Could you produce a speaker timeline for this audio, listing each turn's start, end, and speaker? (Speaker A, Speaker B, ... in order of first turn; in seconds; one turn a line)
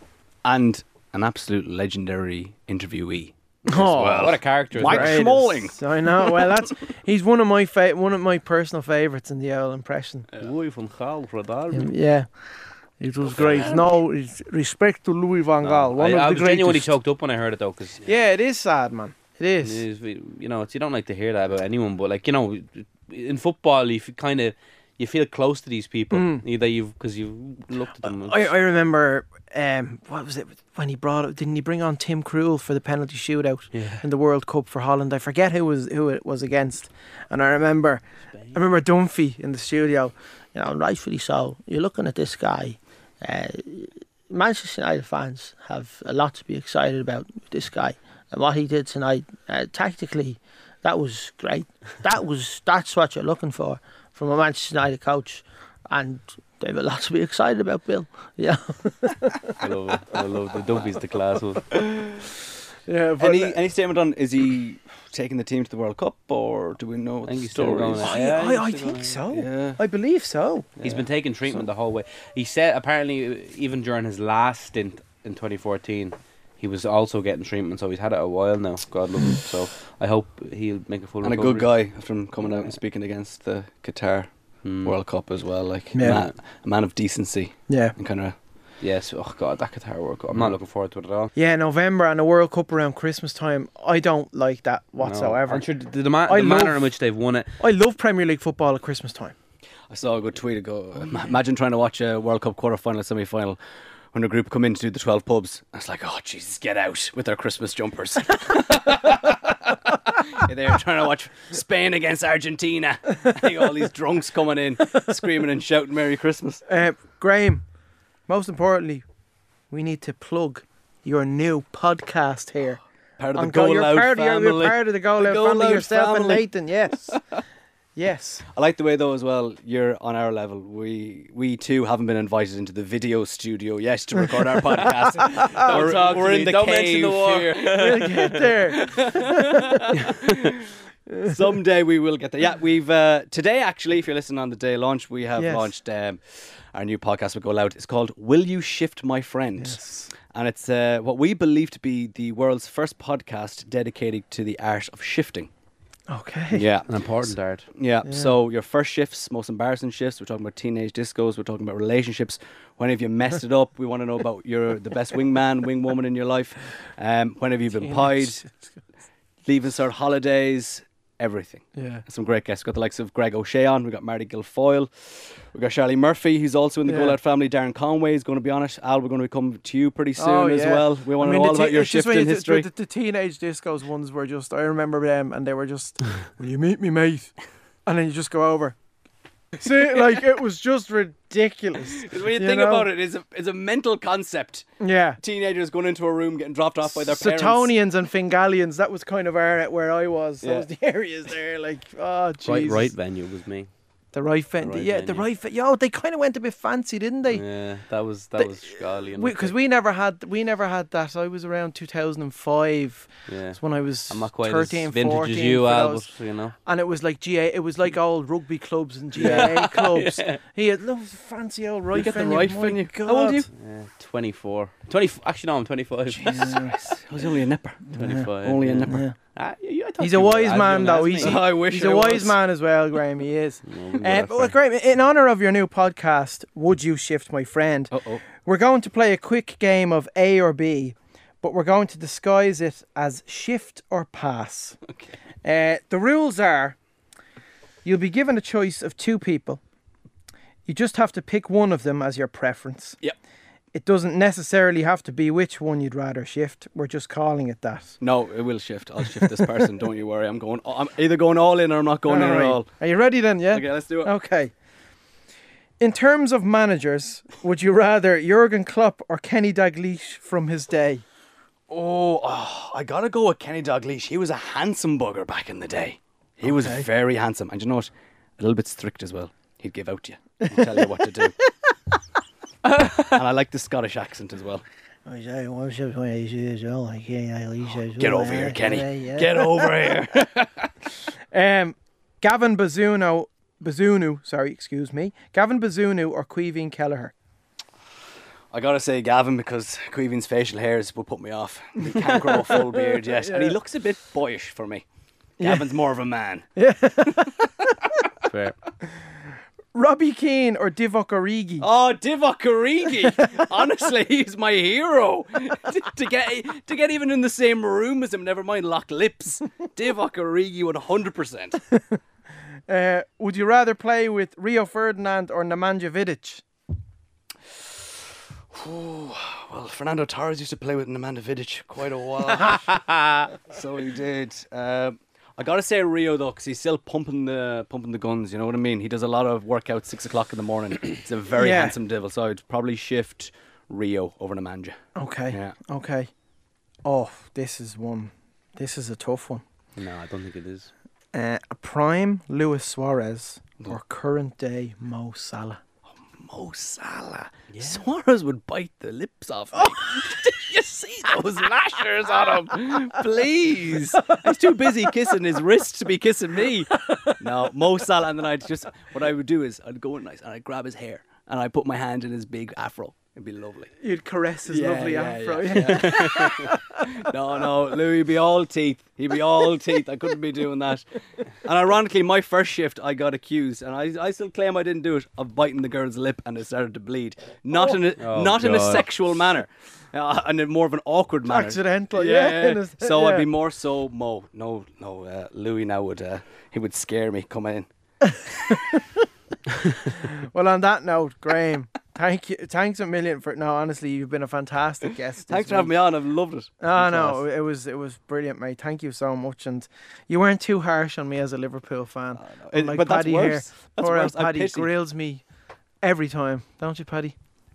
Speaker A: 0.4-6.5
Speaker B: 3.7-10.3
Speaker C: 4.0-5.4
Speaker C: 10.4-12.0
Speaker B: 11.7-16.9
Speaker C: 13.3-13.7
Speaker A: 13.4-13.8
Speaker C: 15.6-18.1
Speaker B: 18.0-19.8
Speaker C: 19.6-28.5
Speaker B: 26.1-26.4
Speaker B: 28.0-59.6
Speaker C: 33.7-34.0
Speaker C: 59.6-61.9
Speaker B: 62.9-63.6
Speaker A: 63.2-68.2
Speaker C: 67.3-69.2
Speaker B: 68.0-70.8
Speaker A: 69.3-69.8
Speaker C: 70.8-82.6
Speaker A: 70.8-71.1
Speaker A: 81.2-88.4
Speaker C: 84.6-85.0
Speaker B: 85.9-86.2
Speaker C: 86.0-86.3
Speaker B: 87.7-88.0
Speaker C: 88.8-91.3
Speaker A: 90.3-90.6
Speaker B: 91.4-95.7
Speaker C: 95.0-97.5
Speaker B: 96.3-96.9
Speaker B: 97.6-99.3
Speaker A: 99.9-103.6
Speaker A: 104.1-116.6
Speaker B: 116.7-117.7
Speaker B: 118.3-119.1
Speaker B: 119.7-127.3
Speaker A: 123.2-126.5
Speaker B: 128.0-128.4
Speaker A: 128.5-137.8
Speaker C: 135.5-138.7
Speaker B: 137.7-139.8
Speaker A: 138.8-139.3
Speaker A: 140.1-140.5
Speaker A: 141.2-155.5
Speaker B: 145.4-145.7
Speaker B: 149.6-150.1
Speaker B: 156.1-156.7
Speaker A: 156.5-168.5
Speaker C: 156.9-157.7
Speaker B: 158.1-158.3
Speaker B: 167.8-168.8
Speaker A: 169.4-182.7
Speaker B: 171.8-172.0
Speaker B: 176.8-177.2
Speaker B: 180.2-188.8
Speaker B: 189.6-192.9
Speaker A: 191.8-197.7
Speaker B: 194.8-195.2
Speaker B: 196.9-202.9
Speaker A: 200.4-200.7
Speaker C: 202.4-203.7
Speaker B: 204.1-207.4
Speaker C: 204.6-205.2
Speaker C: 207.3-209.5
Speaker B: 208.4-223.5
Speaker C: 213.3-216.6
Speaker C: 219.2-220.4
Speaker A: 219.2-219.6
Speaker A: 221.9-223.5
Speaker C: 223.6-226.6
Speaker A: 226.1-229.0
Speaker B: 226.2-226.8
Speaker B: 227.9-228.3
Speaker C: 228.0-231.4
Speaker B: 228.9-229.2
Speaker B: 230.0-244.8
Speaker A: 231.2-232.4
Speaker C: 233.7-234.5
Speaker A: 237.9-238.2
Speaker B: 245.4-246.8
Speaker B: 247.8-249.6
Speaker B: 250.7-253.0
Speaker B: 253.7-258.0
Speaker A: 258.0-262.7
Speaker B: 262.1-264.5
Speaker A: 263.5-264.1
Speaker B: 265.8-271.0
Speaker A: 271.7-281.3
Speaker B: 276.5-276.9
Speaker B: 280.4-281.3
Speaker A: 283.1-284.6
Speaker B: 285.1-290.2
Speaker A: 288.0-290.6
Speaker B: 291.3-297.1
Speaker A: 298.5-304.9
Speaker B: 301.9-303.6
Speaker B: 305.4-305.8
Speaker A: 305.4-306.5
Speaker B: 306.6-307.7
Speaker C: 308.3-308.6
Speaker B: 309.7-311.7
Speaker A: 311.6-321.6
Speaker B: 313.1-313.5
Speaker B: 322.7-326.4
Speaker A: 328.5-332.8
Speaker C: 332.7-333.2
Speaker A: 333.4-345.6
Speaker B: 341.4-341.8
Speaker B: 344.9-346.1
Speaker B: 346.9-349.4
Speaker C: 349.8-350.7
Speaker B: 351.1-355.6
Speaker A: 356.1-373.7
Speaker C: 357.5-357.8
Speaker B: 373.8-376.6
Speaker A: 374.5-397.7
Speaker C: 388.0-388.9
Speaker B: 391.3-393.3
Speaker B: 398.5-398.8
Speaker B: 400.0-405.8
Speaker A: 405.3-407.2
Speaker B: 406.6-415.3
Speaker A: 412.2-414.7
Speaker B: 415.8-417.1